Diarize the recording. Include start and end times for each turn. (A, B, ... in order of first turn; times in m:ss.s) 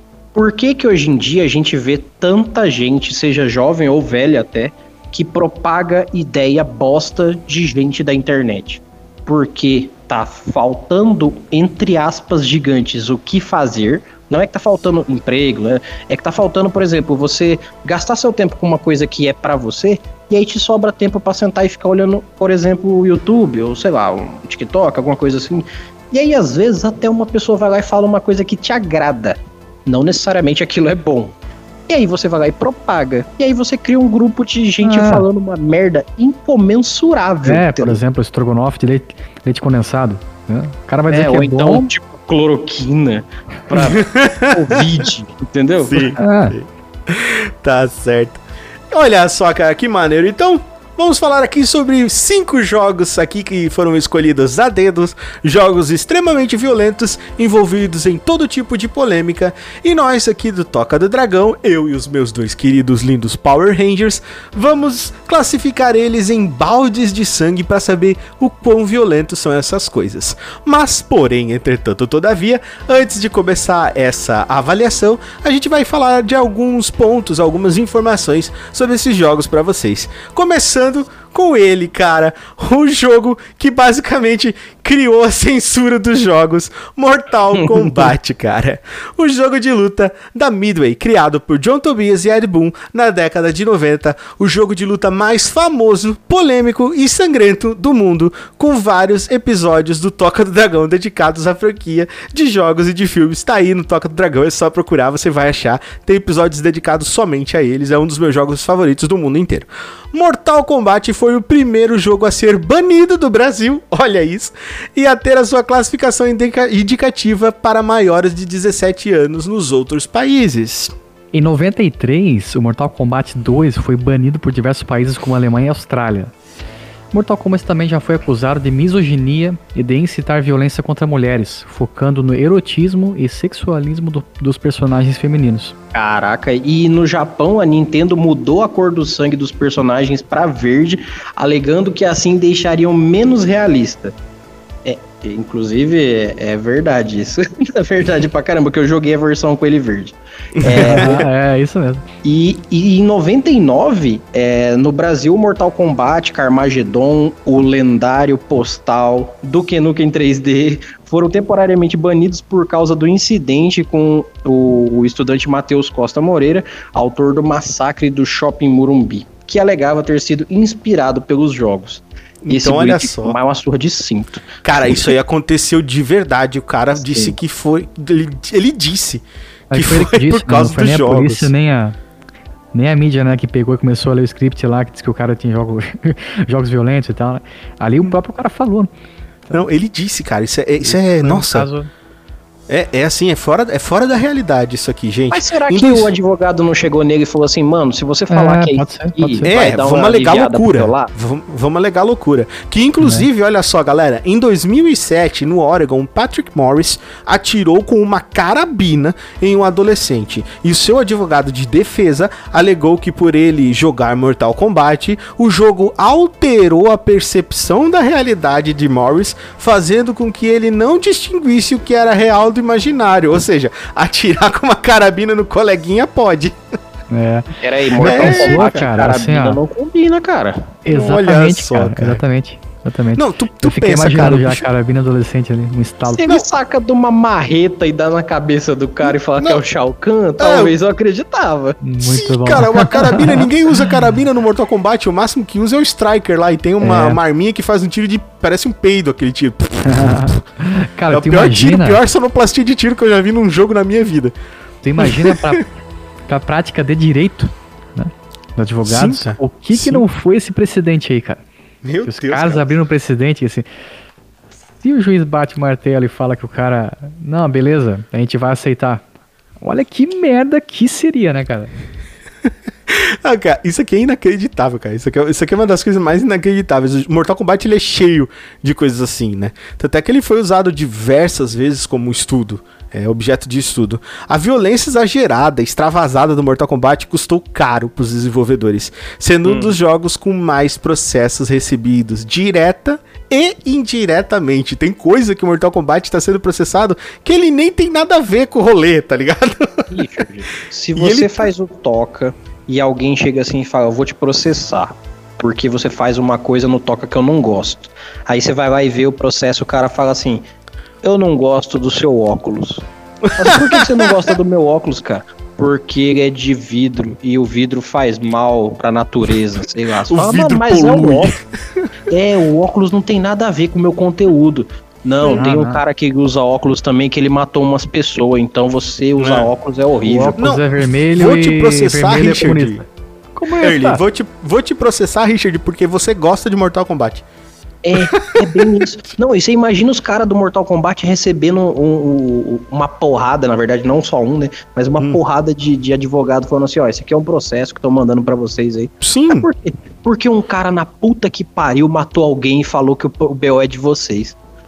0:00.3-0:31.3 A
0:31.9-0:38.0 A
0:34.8-0:35.2 B
0:37.4-0:41.9 B
0:41.1-0:46.1 A
0:43.9-0:44.8 C
0:45.8-2:00.9 C
0:46.2-0:46.6 B
1:27.6-1:27.9 A
2:01.3-2:06.3 B
2:07.1-2:15.8 B
2:15.9-2:24.1 A
2:24.8-2:31.2 A
2:30.6-2:31.2 C
2:30.7-2:32.0 B
2:32.2-2:54.6 A
2:52.4-2:53.4 C
2:54.6-3:01.5 C
2:57.0-2:57.4 A
2:59.7-3:02.0 B
3:02.7-3:08.9 B
3:09.5-3:11.7 C
3:10.8-3:11.9 B
3:12.7-3:16.1 C
3:15.3-3:21.1 A
3:18.3-3:19.6 B
3:19.5-3:46.6 C
3:47.1-3:49.6 B
3:47.6-3:50.8 A
3:48.0-3:48.9 C
3:50.8-3:56.4 B
3:50.9-3:52.2 C
3:53.2-3:54.7 C
3:56.1-4:01.8 A
4:00.4-4:00.8 C
4:01.8-4:04.0 B
4:02.0-4:10.4 C
4:06.8-4:07.2 B
4:09.8-4:12.0 B
4:11.1-4:14.3 C
4:14.8-4:15.6 B
4:15.0-4:15.6 C
4:16.3-4:21.4 B
4:18.9-4:20.0 C
4:21.8-4:22.7 C
4:22.0-4:23.7 B
4:24.8-4:29.0 B
4:29.6-4:31.7 B
4:32.9-4:59.9 C
4:49.5-4:49.7 A
4:59.9-5:10.4 A
5:01.0-5:01.5 C
5:11.0-5:12.8 A
5:13.2-5:14.3 C
5:13.4-5:21.3 A
5:20.1-5:21.9 C
5:22.1-5:30.4 A
5:25.2-5:25.8 B
5:29.2-5:29.5 C
5:30.1-5:34.0 B
5:30.4-5:32.8 C
5:33.6-5:37.2 C
5:37.8-5:54.4 A
5:38.2-5:38.7 C
5:49.0-5:49.5 C